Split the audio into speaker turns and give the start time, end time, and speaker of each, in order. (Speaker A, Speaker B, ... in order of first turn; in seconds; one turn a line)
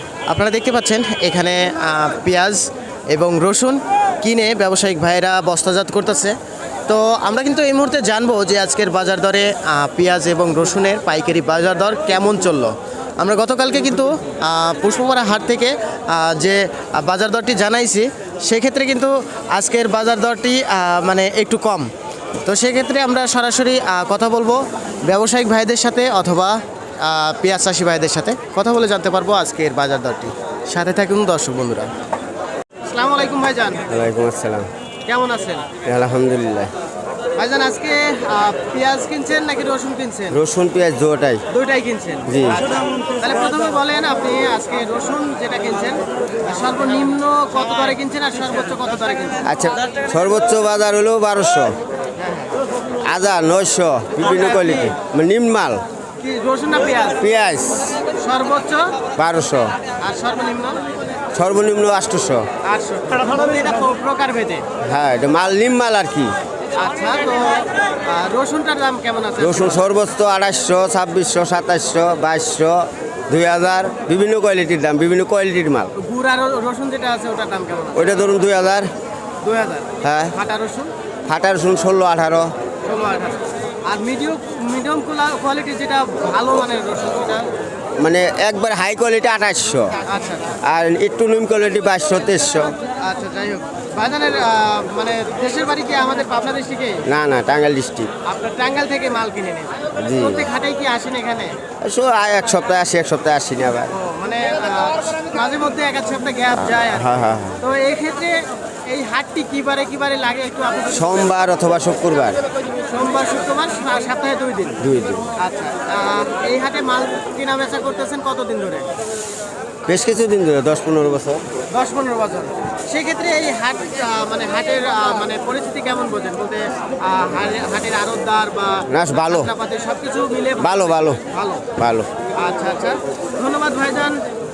Speaker A: 0.3-6.3
Speaker A: 6.9-21.9
Speaker A: 22.4-31.9
Speaker A: 32.8-33.8
Speaker B: 33.9-34.7
Speaker A: 35.1-35.7
Speaker B: 35.8-36.7
Speaker A: 37.4-40.4
Speaker B: 40.3-41.4
Speaker A: 41.5-42.3
Speaker B: 42.3-42.6
Speaker A: 43.2-49.4
Speaker B: 49.4-51.7
Speaker A: 52.2-52.5
Speaker B: 53.0-55.8
Speaker A: 54.2-54.9
Speaker A: 56.2-57.2
Speaker B: 57.2-57.8
Speaker A: 58.1-59.0
Speaker B: 59.1-59.7
Speaker A: 60.0-60.8
Speaker B: 61.3-62.5
Speaker A: 62.6-64.6
Speaker B: 64.8-66.3
Speaker A: 66.8-69.9
Speaker B: 69.4-75.9
Speaker A: 75.9-78.1
Speaker B: 77.9-78.9
Speaker A: 79.4-80.9
Speaker B: 80.0-80.3
Speaker B: 81.3-82.5
Speaker A: 82.8-87.5
Speaker B: 88.0-90.0
Speaker A: 90.0-90.5
Speaker B: 90.6-92.7
Speaker A: 93.0-97.0
Speaker B: 97.0-98.1
Speaker A: 98.2-101.6
Speaker B: 100.0-100.4
Speaker B: 101.8-103.9
Speaker A: 103.9-107.1
Speaker B: 106.8-107.6
Speaker A: 107.6-111.2
Speaker B: 110.9-112.4
Speaker A: 112.9-114.8
Speaker B: 114.8-115.3
Speaker A: 115.4-118.9
Speaker B: 119.9-121.4
Speaker A: 121.7-131.7
Speaker B: 128.9-129.5
Speaker B: 130.6-131.2
Speaker B: 131.8-132.1
Speaker A: 132.3-134.2